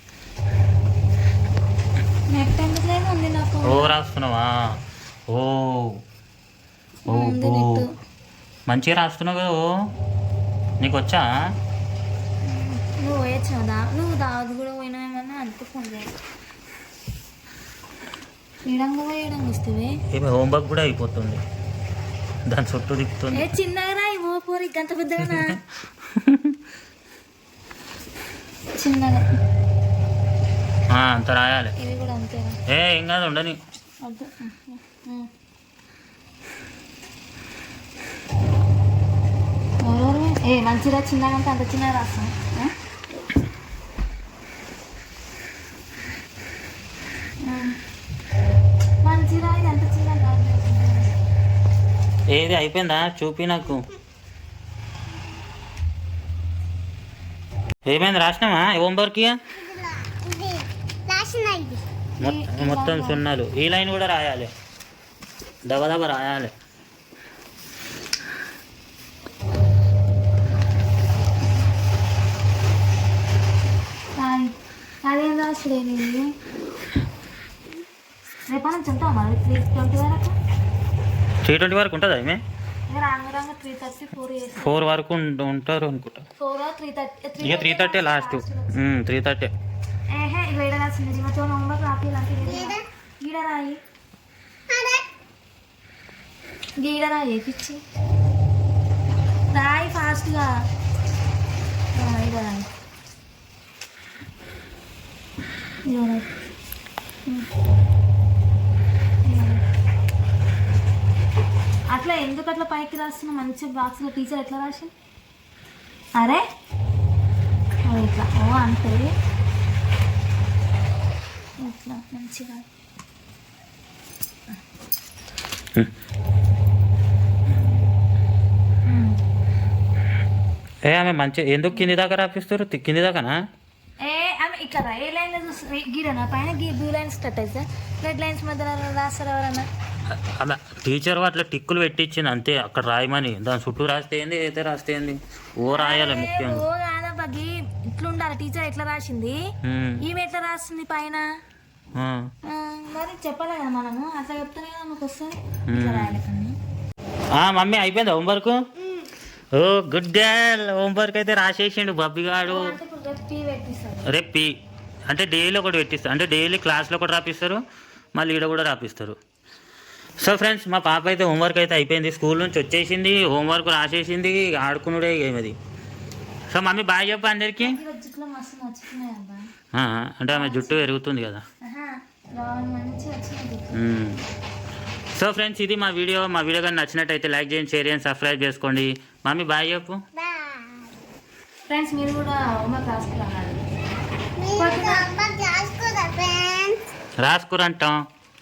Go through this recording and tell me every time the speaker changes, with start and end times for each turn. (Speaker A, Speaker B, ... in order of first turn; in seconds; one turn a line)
Speaker A: 2.3-3.9
Speaker B: 3.6-4.7
Speaker B: 5.3-6.0
Speaker A: 7.1-7.9
Speaker B: 7.1-7.8
Speaker B: 8.7-9.7
Speaker B: 10.8-11.3
Speaker A: 12.4-16.1
Speaker A: 18.6-19.9
Speaker B: 20.1-21.4
Speaker B: 22.5-23.5
Speaker A: 23.3-25.6
Speaker B: 26.1-26.6
Speaker A: 28.8-29.4
Speaker B: 30.9-31.7
Speaker A: 31.8-32.6
Speaker B: 32.7-33.6
Speaker A: 34.0-35.3
Speaker A: 39.8-42.7
Speaker A: 47.4-47.8
Speaker A: 49.0-51.1
Speaker B: 52.3-53.9
Speaker B: 57.9-59.4
Speaker C: 59.5-61.8
Speaker A: 62.2-63.2
Speaker B: 62.2-64.5
Speaker B: 65.7-66.5
Speaker A: 74.2-76.3
Speaker A: 78.5-80.4
Speaker B: 81.5-82.4
Speaker A: 82.9-84.9
Speaker B: 84.6-86.2
Speaker A: 86.4-88.7
Speaker B: 87.4-89.5
Speaker A: 90.1-93.8
Speaker C: 92.4-92.8
Speaker C: 94.7-95.0
Speaker A: 96.8-97.8
Speaker A: 99.5-100.5
Speaker A: 101.9-102.7
Speaker A: 105.9-106.2
Speaker A: 109.2-109.6
Speaker A: 111.9-114.9
Speaker A: 116.2-116.4
Speaker A: 117.8-119.1
Speaker A: 121.6-122.7
Speaker A: 128.8-129.2
Speaker B: 130.8-133.4
Speaker A: 134.0-139.7
Speaker B: 140.1-146.7
Speaker A: 145.7-149.4
Speaker B: 149.6-150.0
Speaker A: 150.0-151.2
Speaker B: 152.0-152.3
Speaker A: 152.5-156.5
Speaker B: 155.7-156.2
Speaker B: 157.3-158.6
Speaker B: 159.5-162.8
Speaker A: 162.4-164.2
Speaker B: 164.1-164.5
Speaker B: 165.1-167.6
Speaker B: 168.2-169.2
Speaker B: 170.2-175.6
Speaker B: 176.5-177.8
Speaker A: 177.6-179.5
Speaker B: 179.7-181.4
Speaker A: 180.3-180.9
Speaker A: 181.7-183.8
Speaker B: 183.7-184.3
Speaker B: 185.2-190.0
Speaker C: 190.2-190.9
Speaker A: 191.7-193.6
Speaker C: 194.4-196.8
Speaker A: 194.6-195.1
Speaker B: 197.2-198.0